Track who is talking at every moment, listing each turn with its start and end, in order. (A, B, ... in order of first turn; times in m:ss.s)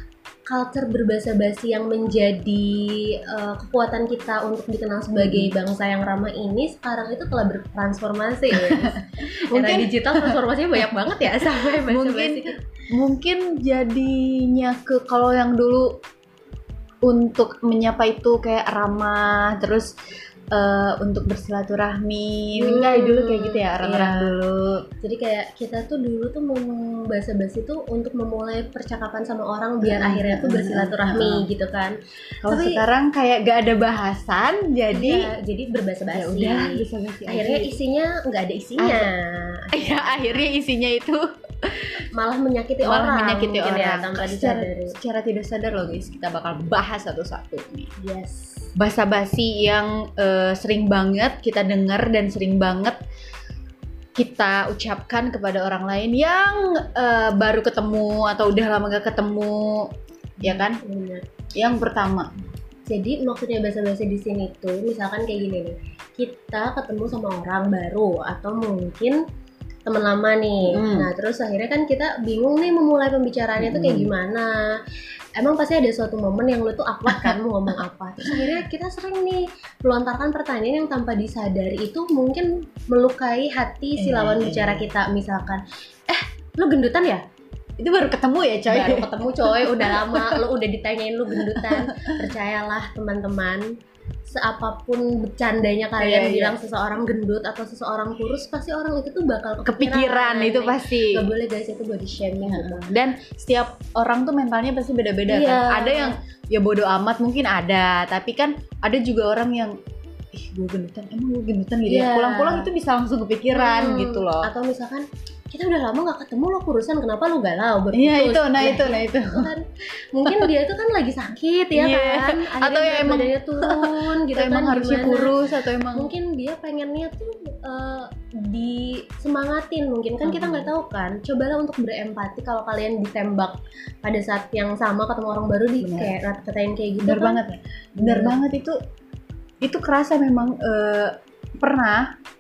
0:00.5-0:12.6 A
0:05.2-0:05.5 B
0:08.5-0:16.0 B
0:17.0-0:19.9 B
0:20.5-0:24.8 B
0:22.6-0:24.3 A
0:25.0-0:32.8 A
0:29.8-0:31.4 B
0:32.4-0:35.3 B
0:34.9-0:40.5 A
0:36.1-0:37.8 B
0:38.8-0:39.1 B
0:39.7-0:42.0 B
0:42.1-0:45.0 A
0:42.8-0:47.9 B
0:48.0-0:48.7 A
0:48.8-0:53.0 B
0:54.2-1:00.8 B
1:00.4-1:01.2 A
1:01.5-1:02.3 B
1:02.8-1:09.2 A
1:09.8-1:14.8 A
1:10.6-1:11.1 B
1:13.6-1:14.1 B
1:15.4-1:27.2 A
1:17.1-1:17.4 B
1:18.2-1:18.6 B
1:24.0-1:24.9 B
1:27.8-1:30.4 B
1:28.7-1:33.7 A
1:31.3-1:32.2 B
1:34.3-1:42.9 A
1:36.0-1:36.6 B
1:39.6-1:41.3 B
1:42.4-1:49.8 B
1:45.3-1:46.2 A
1:50.3-1:54.5 B
1:51.9-1:52.7 A
1:53.5-2:05.3 A
1:57.9-1:59.5 B
2:01.7-2:06.1 B
2:05.9-2:17.4 A
2:10.2-2:10.7 B
2:15.8-2:16.1 B
2:17.0-2:18.8 B
2:18.0-2:18.4 A
2:19.6-2:22.1 B